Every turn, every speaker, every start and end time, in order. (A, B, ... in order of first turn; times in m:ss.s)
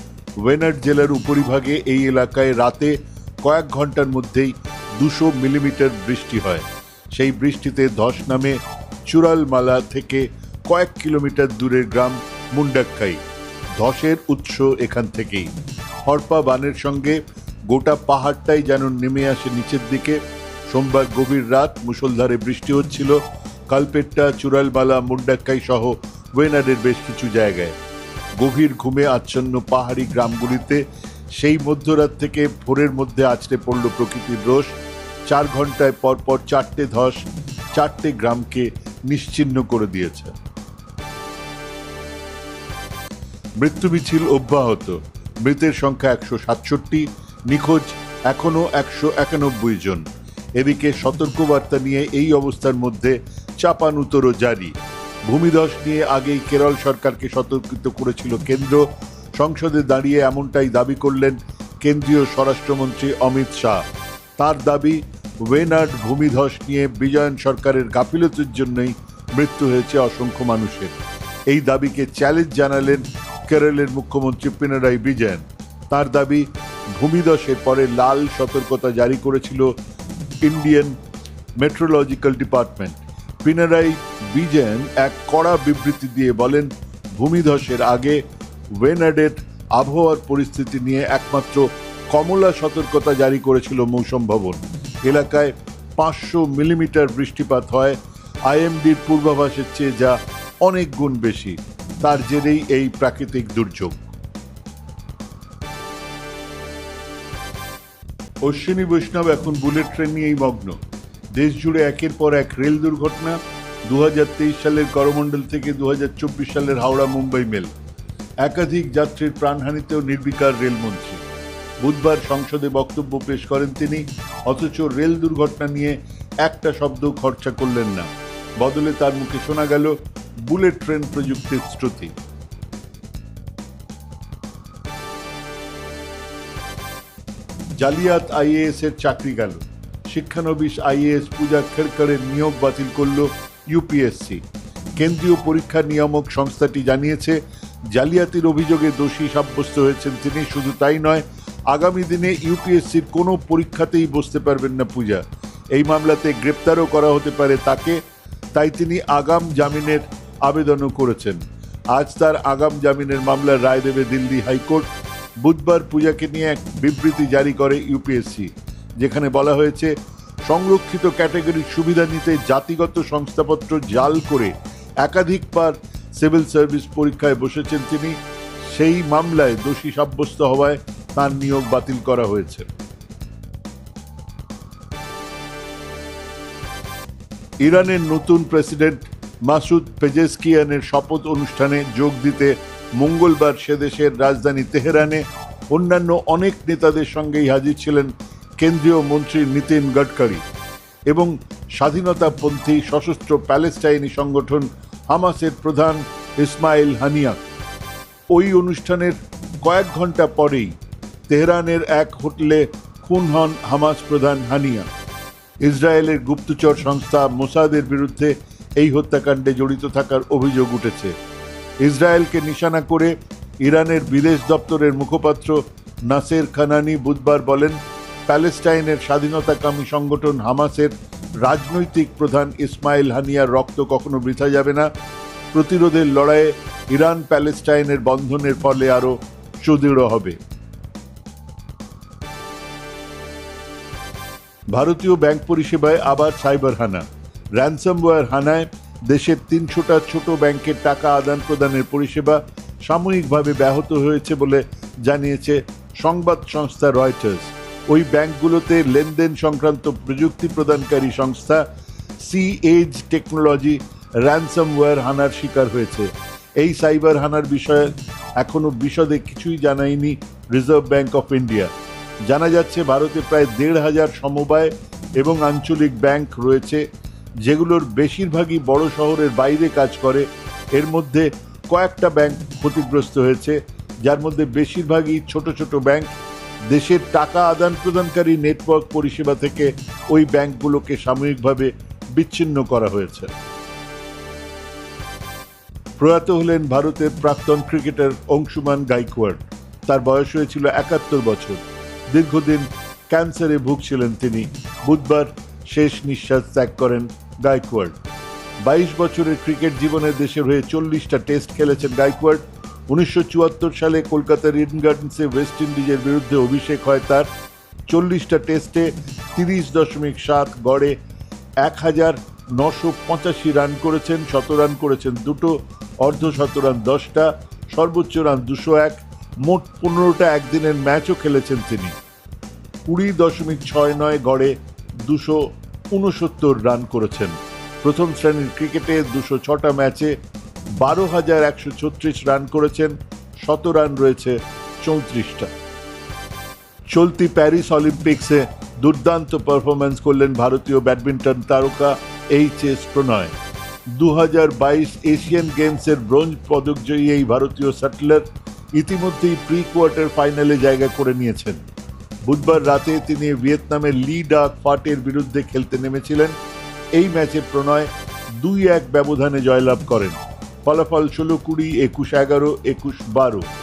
0:00.4-0:13.2 A
0:13.7-0:15.5 A
0:16.0-0:27.7 A
0:28.4-0:30.8 A
0:31.4-0:34.7 A
0:35.3-0:40.4 A
0:43.6-0:50.0 A
0:50.6-0:54.7 A
0:55.2-1:03.8 A
1:04.4-1:10.9 A
1:11.5-1:19.8 A
1:20.4-1:21.0 A
1:21.6-1:28.2 A
1:28.7-1:44.1 A
1:48.4-1:50.8 A
1:51.3-1:57.7 A
1:58.4-2:01.2 A
2:01.8-2:12.1 A
2:17.8-2:24.4 A
2:25.0-2:38.0 A
2:38.5-2:41.4 A
2:41.9-2:44.9 A
2:45.4-2:49.9 A
2:50.4-2:54.5 A
2:55.0-3:02.7 A
3:07.6-3:20.4 A
3:21.1-3:27.4 A
3:28.3-3:30.7 A
3:31.3-3:34.9 A
3:35.6-3:41.1 A
3:41.8-3:54.9 A
3:55.5-4:00.4 A
4:04.7-4:21.6 A
4:22.2-4:31.7 A
4:32.2-4:36.8 A
4:37.4-4:46.2 A
4:46.7-4:53.3 A
4:56.0-5:07.9 A
5:08.6-5:17.3 A
5:17.9-5:21.0 A
5:21.6-5:32.0 A
5:32.8-5:40.2 A
5:40.8-5:45.5 A
5:46.9-5:53.3 A
5:53.9-6:01.6 A
6:02.2-6:06.3 A
6:07.0-6:13.5 A